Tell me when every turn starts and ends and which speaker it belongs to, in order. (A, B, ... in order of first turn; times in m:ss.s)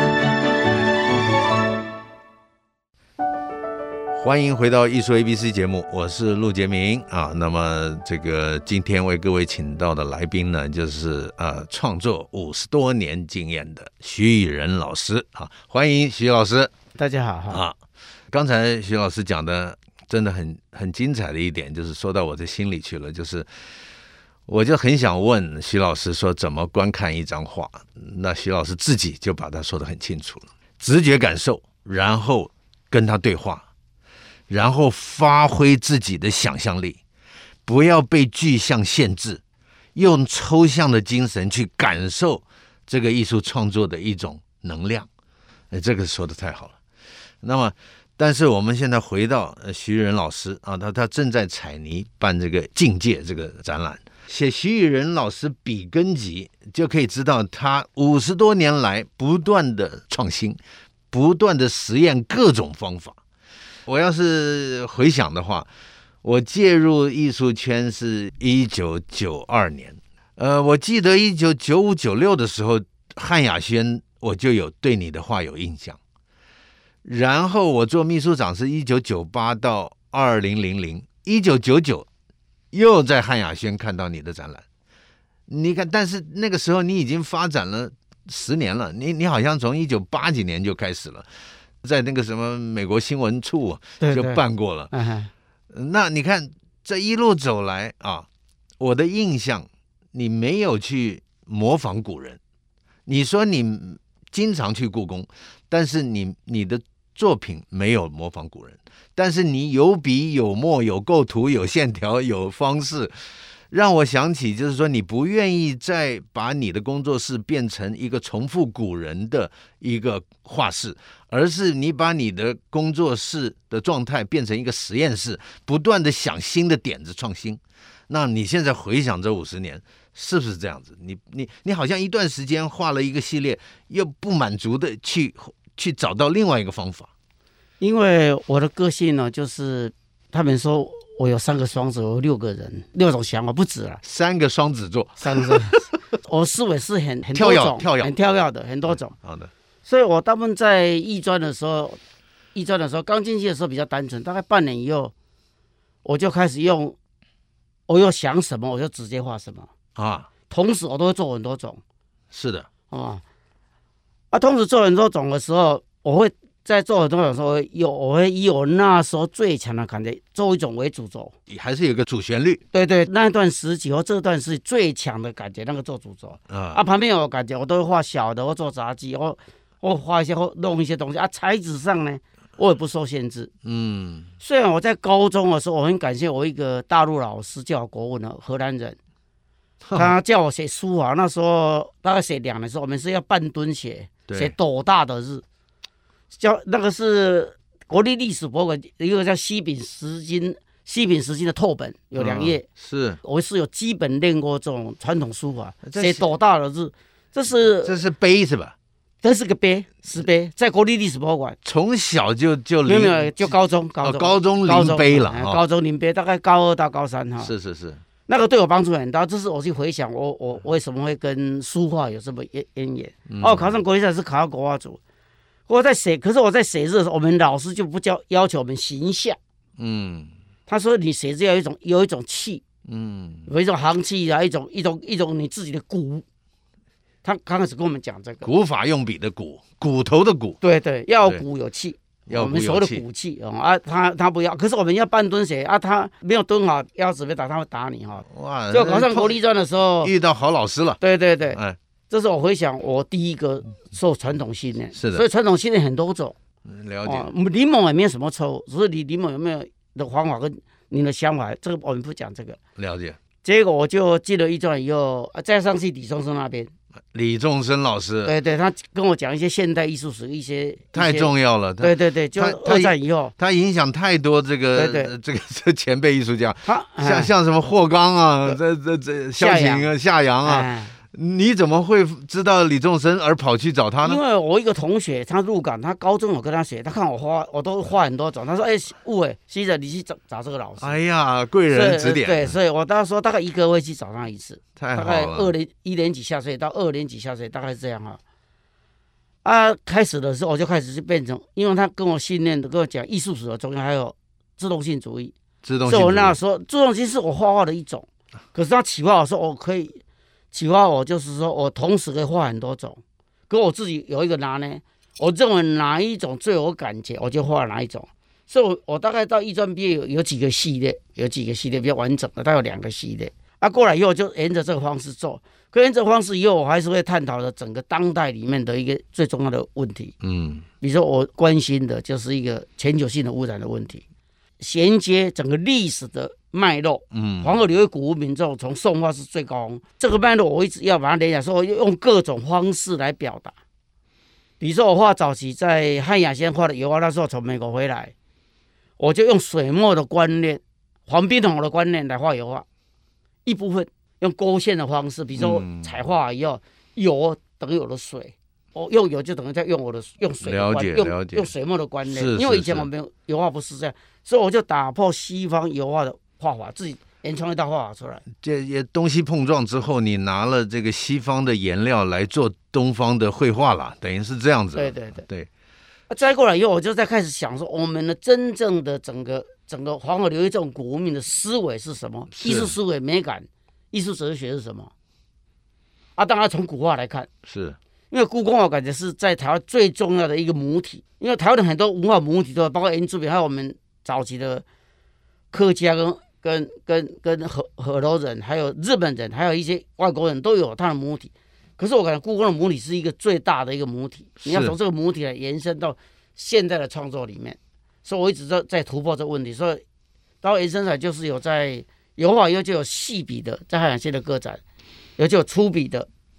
0:04.1-0:16.7 A
0:17.0-0:17.6 B
0:17.5-0:17.8 A
0:18.3-0:23.5 A
0:24.5-0:33.7 A
0:34.5-0:37.0 A
0:37.7-0:39.4 A
0:40.0-0:45.1 A
0:45.7-0:46.8 A
0:47.4-1:00.6 A
1:01.1-1:03.2 A
1:03.9-1:05.7 A
1:06.2-1:16.0 A
1:17.0-1:22.1 A
1:22.7-1:24.6 A
1:25.5-1:31.3 A
1:31.8-1:34.9 A
1:34.0-1:35.3 B
1:35.7-1:38.3 A
1:38.8-1:42.4 A
1:43.1-1:53.1 A
1:53.7-2:17.1 A
2:17.8-2:24.0 B
2:24.0-2:25.8 A
2:25.2-2:29.1 B
2:27.3-2:28.1 A
2:28.9-2:29.5 A
2:29.8-2:32.0 B
2:32.5-2:35.1 B
2:36.0-2:37.0 B
2:37.9-2:39.7 B
2:40.0-2:40.3 A
2:40.5-2:41.8 B
2:42.3-2:42.7 A
2:42.9-2:43.2 B
2:44.3-2:51.3 B
2:51.5-2:52.6 A
2:52.7-3:03.5 B
2:56.5-2:56.8 A
3:03.6-3:04.3 A
3:04.4-3:09.0 B
3:09.8-3:10.1 A
3:09.9-3:15.4 B
3:14.3-3:14.5 A
3:16.4-3:22.7 B
3:22.2-3:23.2 A
3:23.2-3:28.0 B
3:25.8-3:26.3 A
3:27.8-3:28.8 A
3:29.2-3:31.6 B
3:31.6-3:35.6 A
3:32.9-3:37.5 B
3:37.4-3:38.0 A
3:38.3-3:45.0 B
3:43.3-3:43.8 A
3:45.7-3:49.4 B
3:49.8-3:50.3 A
3:50.7-3:52.6 B
3:52.9-3:53.5 A
3:53.5-3:56.2 B
3:57.2-3:58.5 B
3:58.4-4:00.6 A
4:00.6-4:10.1 B
4:02.3-4:03.0 A
4:08.3-4:09.4 A
4:10.0-4:11.0 A
4:11.0-4:16.4 B
4:11.5-4:11.8 A
4:15.0-4:15.2 A
4:16.7-4:17.3 A
4:17.0-4:22.6 B
4:22.8-4:23.2 A
4:23.4-4:26.7 B
4:27.1-4:28.3 A
4:28.2-4:33.3 B
4:30.9-4:44.2 A
4:34.8-4:35.1 B
4:36.6-4:37.3 B
4:39.4-4:39.9 B
4:40.4-4:40.9 B
4:44.0-4:51.0 B
4:50.8-4:52.6 A
4:51.7-4:58.2 B
4:54.8-4:55.5 A
4:59.4-5:05.3 B
5:05.6-5:06.4 A
5:05.9-5:10.0 B
5:10.5-5:30.2 B
5:30.2-5:30.7 A
5:30.8-5:34.0 B
5:34.6-5:43.6 B
5:37.1-5:37.5 A
5:44.6-5:48.1 B
5:49.0-5:52.6 B
5:53.4-6:08.3 B
5:55.4-5:55.9 A
6:00.4-6:01.5 A
6:02.1-6:02.9 A
6:08.4-6:15.5 A
6:14.8-6:15.2 B
6:16.1-6:24.9 B
6:22.4-6:22.7 A
6:26.2-6:27.3 B
6:27.5-6:27.8 A
6:28.1-6:34.6 B
6:35.5-6:49.8 B
6:44.4-6:44.8 A
6:50.4-6:54.6 B
6:55.2-6:56.1 B